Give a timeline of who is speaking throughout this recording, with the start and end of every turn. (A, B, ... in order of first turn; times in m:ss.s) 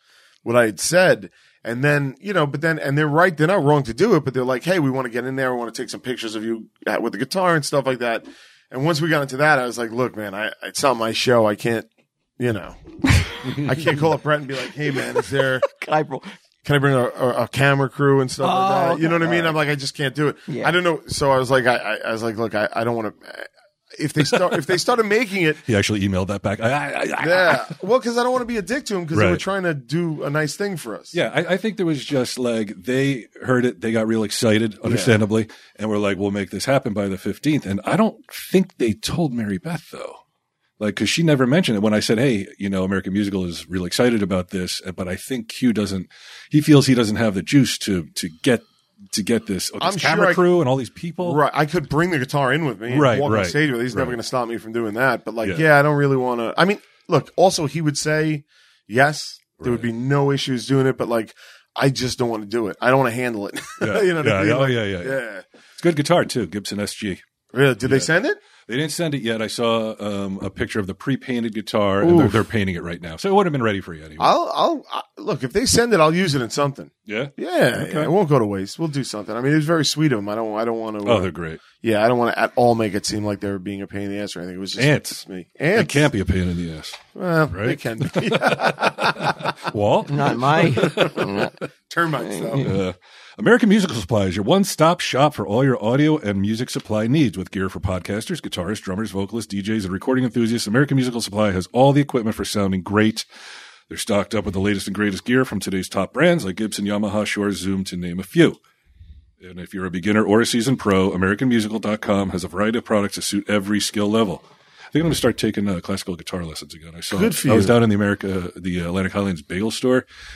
0:00.4-0:11.9 A
0:12.4-0:15.7 A
0:13.1-0:13.4 B
0:13.5-0:13.8 C
0:15.6-0:16.3 B
0:16.6-0:25.6 A
0:18.4-0:19.5 B
0:20.5-0:20.7 B
0:25.6-0:27.7 C
0:27.2-0:31.2 A
0:29.1-0:29.4 C
0:31.1-0:40.2 C
0:34.8-0:35.2 A
0:40.8-0:51.4 C
0:49.8-0:50.4 A
0:51.2-1:05.4 A
0:52.9-0:54.2 C
0:59.6-0:59.9 C
1:03.8-1:05.2 C
1:05.8-1:07.2 C
1:07.5-1:08.4 A
1:07.8-1:08.1 C
1:08.6-1:14.3 C
1:12.0-1:12.4 A
1:14.2-1:26.1 A
1:17.0-1:18.1 C
1:21.0-1:21.6 C
1:24.8-1:31.1 C
1:27.1-1:29.6 A
1:30.1-1:31.5 B
1:30.6-1:32.7 A
1:32.2-1:32.8 B
1:32.6-1:43.2 C
1:43.9-1:48.6 C
1:49.4-2:00.0 C
1:57.1-1:57.8 A